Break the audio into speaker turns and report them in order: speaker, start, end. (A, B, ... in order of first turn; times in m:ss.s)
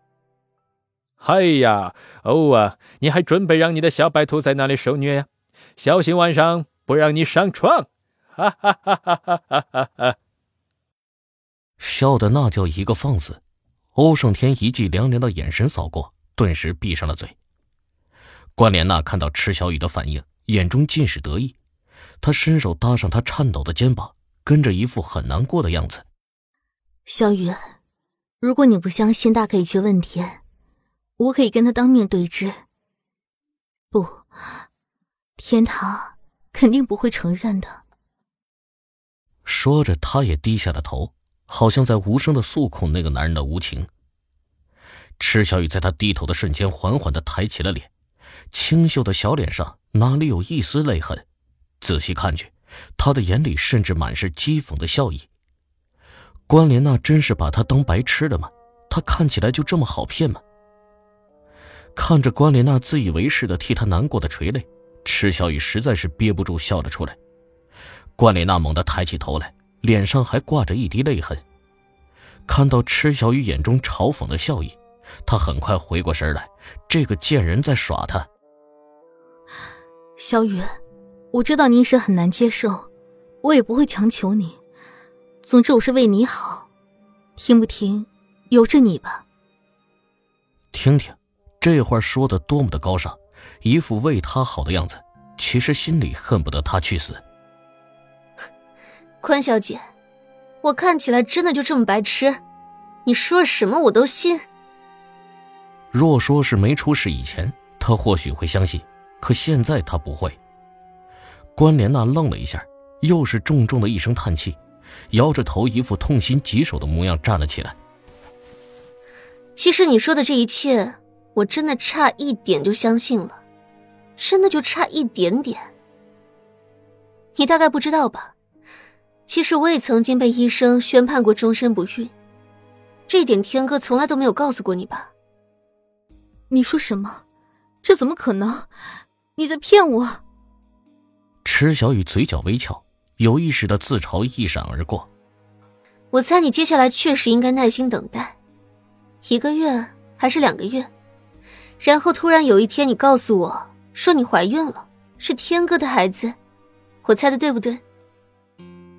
0:01.2-0:10.1 A
0:11.8-0:13.4 B
0:13.9-0:17.3 B
0:18.6-0:21.5 B
0:22.2-0:26.0 B
0:27.1-0:27.7 C
0:28.4-0:30.4 C
0:31.2-0:32.6 C
0:33.9-0:34.2 C
0:35.4-0:37.8 C
0:39.4-0:43.9 B
0:45.2-0:47.9 B
0:48.5-0:51.2 B
0:51.8-0:55.3 B
0:56.5-1:00.4 B
1:02.0-1:07.2 B
1:08.2-1:11.4 B
1:12.5-1:18.3 B
1:20.2-1:20.8 C
1:21.3-1:22.9 C
1:23.4-1:24.6 C
1:25.4-1:26.7 C
1:27.4-1:29.2 C
1:30.7-1:37.2 B
1:39.2-1:39.8 D
1:40.6-1:42.4 D
1:43.0-1:44.4 D
1:45.9-1:50.4 B
1:51.6-1:54.6 B
1:55.1-1:57.8 B
1:59.6-2:03.4 D
2:04.2-2:05.7 D
2:07.4-2:08.3 D
2:09.3-2:12.1 D
2:13.1-2:15.1 D
2:16.5-2:17.2 C
2:17.8-2:18.7 C
2:19.4-2:20.2 C
2:21.4-2:25.1 B
2:26.1-2:28.4 D
2:29.2-2:30.9 D
2:31.8-2:36.4 D
2:37.0-2:37.8 D